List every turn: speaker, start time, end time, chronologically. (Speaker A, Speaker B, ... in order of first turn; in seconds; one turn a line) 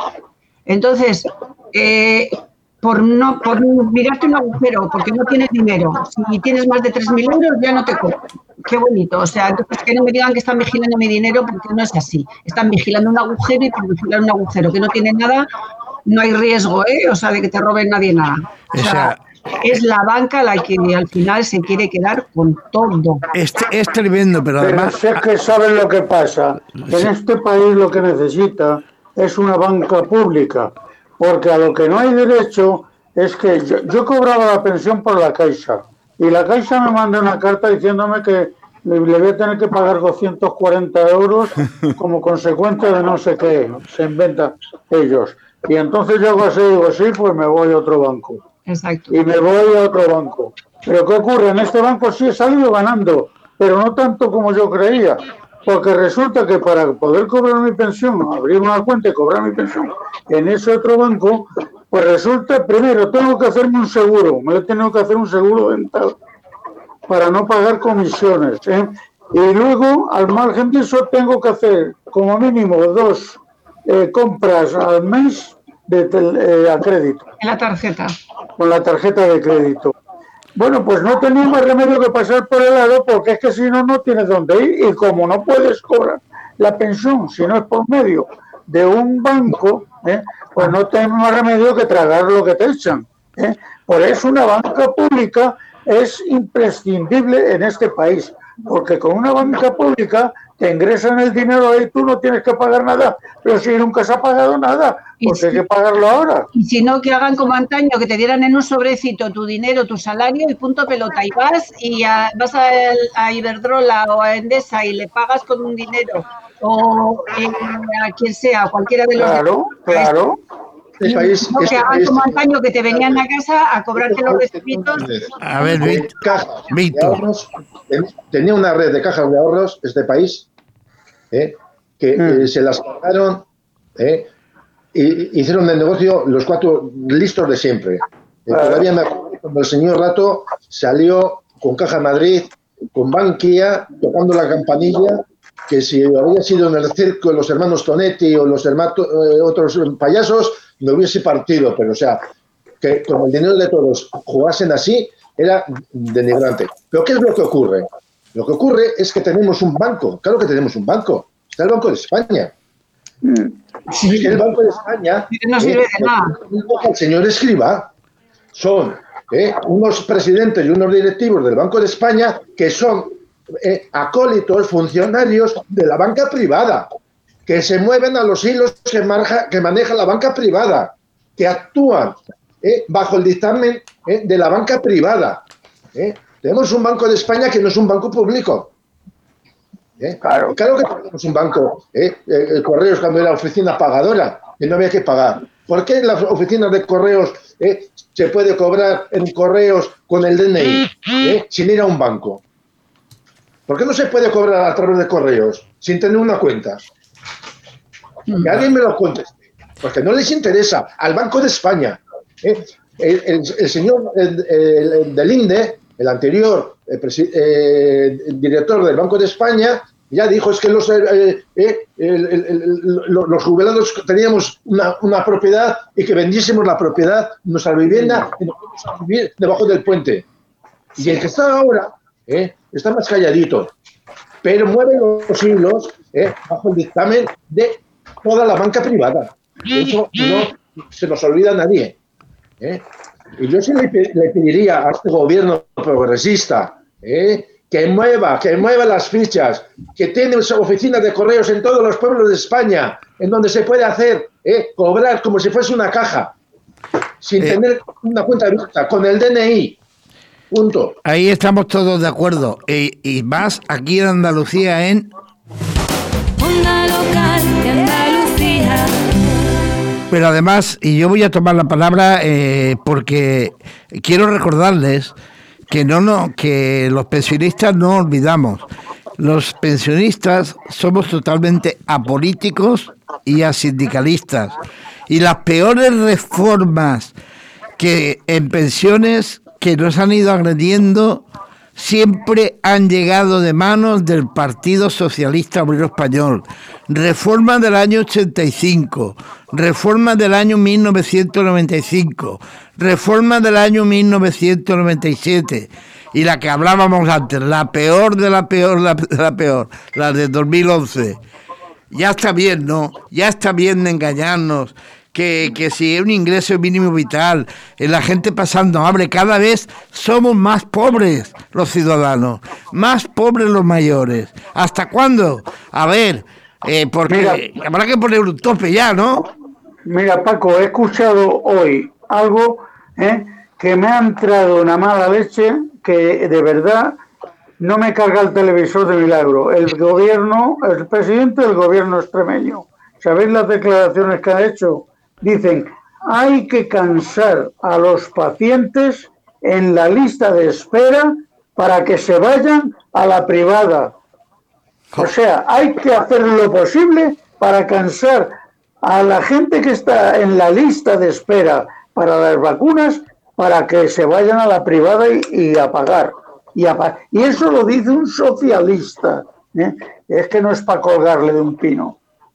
Speaker A: 0.7-15.5
Speaker A: 16.1-23.3
Speaker B: 18.7-19.2
Speaker B: 23.3-25.2
Speaker C: 24.6-48.4
Speaker A: 48.7-49.1
Speaker C: 49.1-66.1
Speaker C: 67.1-77.2
Speaker A: 77.4-78.2
Speaker C: 78.6-79.9
Speaker C: 80.5-106.5
Speaker A: 105.2-105.6
Speaker A: 106.5-120.1
Speaker C: 119.2-120.4
Speaker D: 121.0-123.2
Speaker A: 121.0-125.0
Speaker D: 124.0-130.5
Speaker B: 125.4-126.1
Speaker B: 126.7-127.2
Speaker D: 131.3-133.4
Speaker C: 132.2-132.5
Speaker D: 133.9-134.3
Speaker D: 134.9-152.2
Speaker C: 138.5-138.9
Speaker D: 152.8-162.5
Speaker C: 163.2-164.2
Speaker D: 164.1-167.9
Speaker A: 165.3-166.3
Speaker D: 168.5-176.9
Speaker D: 177.4-188.7
Speaker D: 190.0-202.4
Speaker C: 190.2-190.6
Speaker D: 203.7-206.9
Speaker D: 208.3-230.3
Speaker D: 230.9-233.7
Speaker D: 234.4-242.0
Speaker D: 242.6-242.8
Speaker D: 243.4-256.4
Speaker D: 257.2-259.8
Speaker D: 260.5-261.0
Speaker B: 261.0-265.1
Speaker E: 266.4-268.9
Speaker B: 270.1-275.1
Speaker B: 275.7-278.6
Speaker B: 279.2-284.6
Speaker B: 285.1-287.1
Speaker B: 287.8-291.2
Speaker B: 291.8-311.2
Speaker B: 311.9-329.3
Speaker C: 327.1-327.4
Speaker C: 329.9-337.0
Speaker C: 337.6-353.9
Speaker C: 354.9-372.0